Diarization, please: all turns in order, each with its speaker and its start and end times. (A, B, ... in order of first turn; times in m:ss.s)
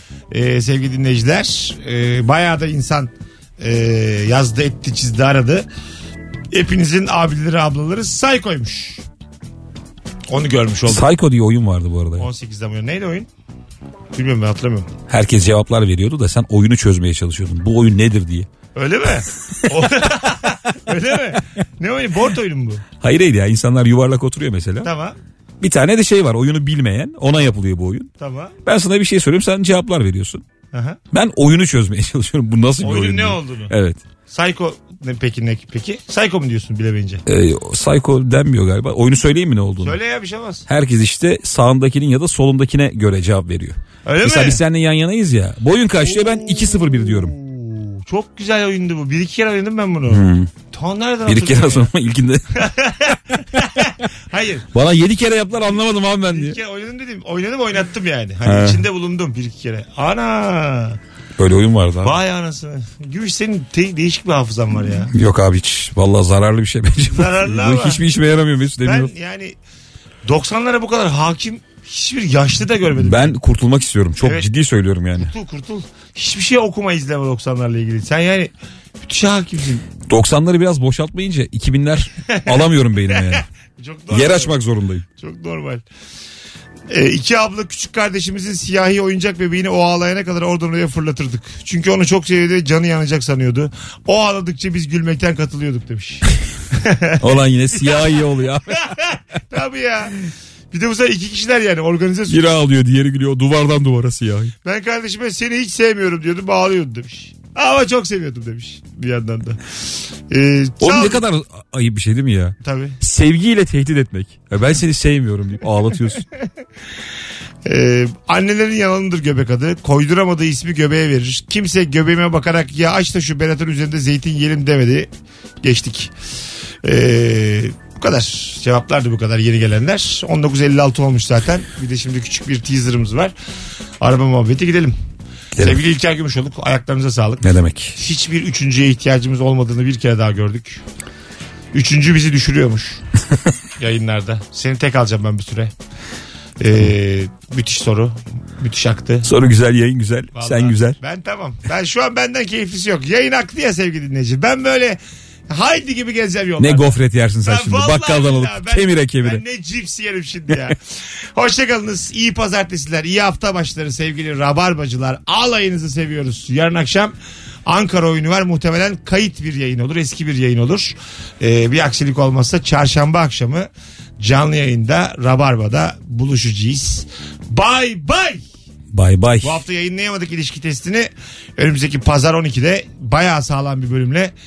0:00.3-0:05.7 A
0:06.5-0:09.0 A
0:10.3-0:11.1 A
0:10.9-0:12.3 B
0:12.2-0:13.3 A
0:14.1-0:14.9 A
0:15.1-0:18.5 B
0:18.8-0:22.8 A
0:23.0-0:24.9 B
0:24.8-0:25.2 A
0:25.6-0:28.1 B
0:28.2-0:28.6 A
0:28.6-0:30.4 B
0:30.7-0:31.0 A
0:31.1-0:34.0 B
0:32.8-0:33.7 A
0:34.3-0:37.2 A
0:37.3-0:40.0 B
0:39.8-0:40.7 A
0:40.7-0:47.4 B
0:44.0-0:44.6 A
0:46.0-0:51.9 A
0:50.1-0:50.5 B
0:51.3-0:52.5 B
0:52.6-0:54.7 A
0:54.7-0:56.6 B
0:56.3-1:01.0 A
0:58.4-0:58.8 B
1:01.4-1:02.2 B
1:02.0-1:05.1 A
1:05.1-1:09.1 B
1:07.1-1:08.0 A
1:08.8-1:09.6 A
1:10.2-1:13.4 A
1:13.0-1:15.3 B
1:14.2-1:14.5 A
1:15.2-1:19.8 A
1:20.0-1:23.4 B
1:22.3-1:24.6 A
1:24.1-1:25.0 B
1:25.2-1:25.8 A
1:26.9-1:38.1 A
1:37.2-1:38.8 B
1:38.7-1:40.2 A
1:40.7-1:42.4 A
1:42.3-1:44.5 B
1:44.6-1:49.6 A
1:50.3-1:51.2 A
1:50.8-1:56.2 B
1:52.6-1:53.0 A
1:57.6-2:05.1 A
2:05.6-2:06.1 A
2:06.8-2:13.3 A
2:14.0-2:15.0 A
2:15.6-2:15.8 B
2:15.6-2:20.8 A
2:17.4-2:18.0 B
2:21.7-2:23.0 A
2:23.8-2:25.7 A
2:26.6-2:29.3 A
2:29.2-2:31.0 B
2:30.4-2:35.0 A
2:35.5-2:40.8 A
2:36.6-2:39.4 B
2:41.4-2:47.2 A
2:47.7-2:53.7 A
2:54.2-2:58.4 A
2:58.9-2:59.6 B
2:59.4-3:04.3 A